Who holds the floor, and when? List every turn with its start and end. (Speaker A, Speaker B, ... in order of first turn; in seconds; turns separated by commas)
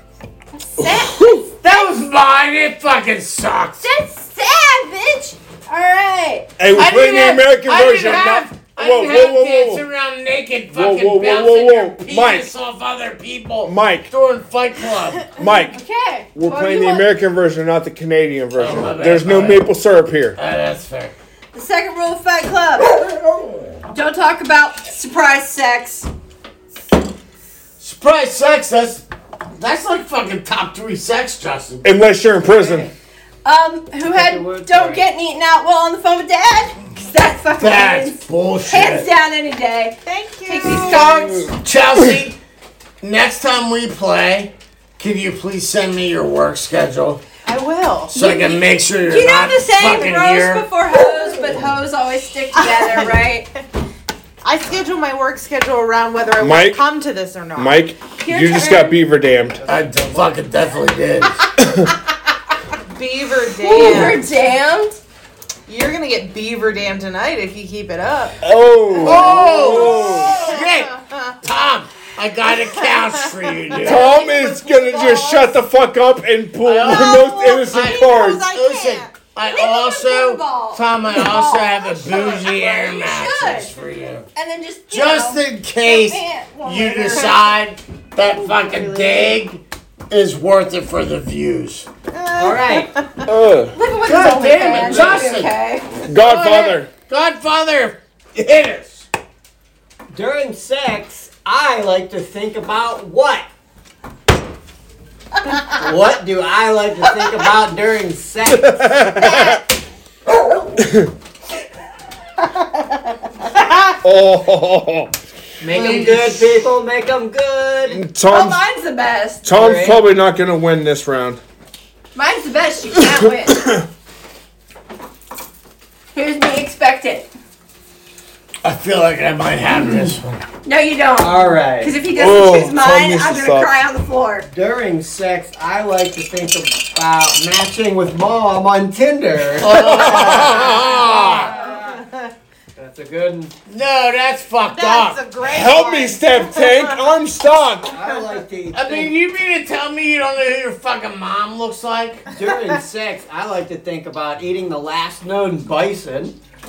Speaker A: 0.5-1.9, Speaker B: 0.8-1.4, Speaker C: 1.6-3.9, Speaker A: 3.8-6.5, Speaker B: 6.6-9.8, Speaker C: 6.7-15.3, Speaker B: 10.7-12.5, Speaker B: 13.6-14.1, Speaker B: 15.3-15.8, Speaker A: 15.7-17.1, Speaker B: 16.4-20.4, Speaker C: 18.6-19.7, Speaker C: 20.4-21.1, Speaker A: 21.5-23.0, Speaker A: 23.9-26.1, Speaker C: 27.8-29.0, Speaker C: 29.6-31.9, Speaker B: 31.8-32.9, Speaker A: 32.6-32.9, Speaker A: 33.5-41.5, Speaker D: 34.1-35.0, Speaker C: 37.6-39.1, Speaker E: 40.0-41.1, Speaker C: 40.6-42.4, Speaker C: 43.0-47.2, Speaker E: 47.5-48.1, Speaker C: 48.1-50.6, Speaker A: 48.1-53.5, Speaker E: 52.7-53.1, Speaker E: 54.4-57.8, Speaker B: 56.4-56.8, Speaker B: 57.6-59.6, Speaker A: 58.2-59.0, Speaker C: 59.7-61.5, Speaker B: 61.6-61.9, Speaker E: 62.9-64.2, Speaker A: 63.6-65.0, Speaker E: 65.7-68.4, Speaker B: 68.4-70.4, Speaker E: 69.0-71.4, Speaker C: 69.0-74.1, Speaker E: 72.7-75.5, Speaker A: 73.7-74.5, Speaker B: 73.8-78.5, Speaker C: 76.6-84.3, Speaker E: 76.9-79.1, Speaker A: 79.5-83.7, Speaker A: 84.3-87.5, Speaker C: 84.9-91.9, Speaker D: 88.2-89.4, Speaker E: 92.1-93.3, Speaker D: 92.4-92.9, Speaker B: 93.2-93.8, Speaker A: 93.7-95.9, Speaker C: 94.0-95.5, Speaker D: 94.8-95.2, Speaker B: 96.1-96.9, Speaker C: 96.1-99.1, Speaker D: 100.1-103.5, Speaker D: 105.7-109.2, Speaker B: 108.5-109.6, Speaker B: 110.8-111.1, Speaker B: 114.0-115.1, Speaker D: 115.6-118.0, Speaker C: 115.7-116.5, Speaker B: 117.9-118.6, Speaker A: 118.3-119.5, Speaker B: 119.4-121.4, Speaker D: 119.5-120.0, Speaker A: 122.1-123.6, Speaker B: 123.6-123.8, Speaker A: 126.1-127.3, Speaker C: 128.6-130.4, Speaker A: 130.6-134.5, Speaker D: 131.2-132.0, Speaker B: 132.1-133.7, Speaker D: 134.5-142.0, Speaker C: 139.6-141.5, Speaker B: 139.7-141.1, Speaker E: 140.8-142.3, Speaker D: 142.8-143.5, Speaker C: 143.7-145.2, Speaker E: 144.7-147.1, Speaker B: 145.4-147.9, Speaker D: 147.9-149.1, Speaker C: 148.7-152.2, Speaker D: 152.3-156.4, Speaker E: 152.4-152.8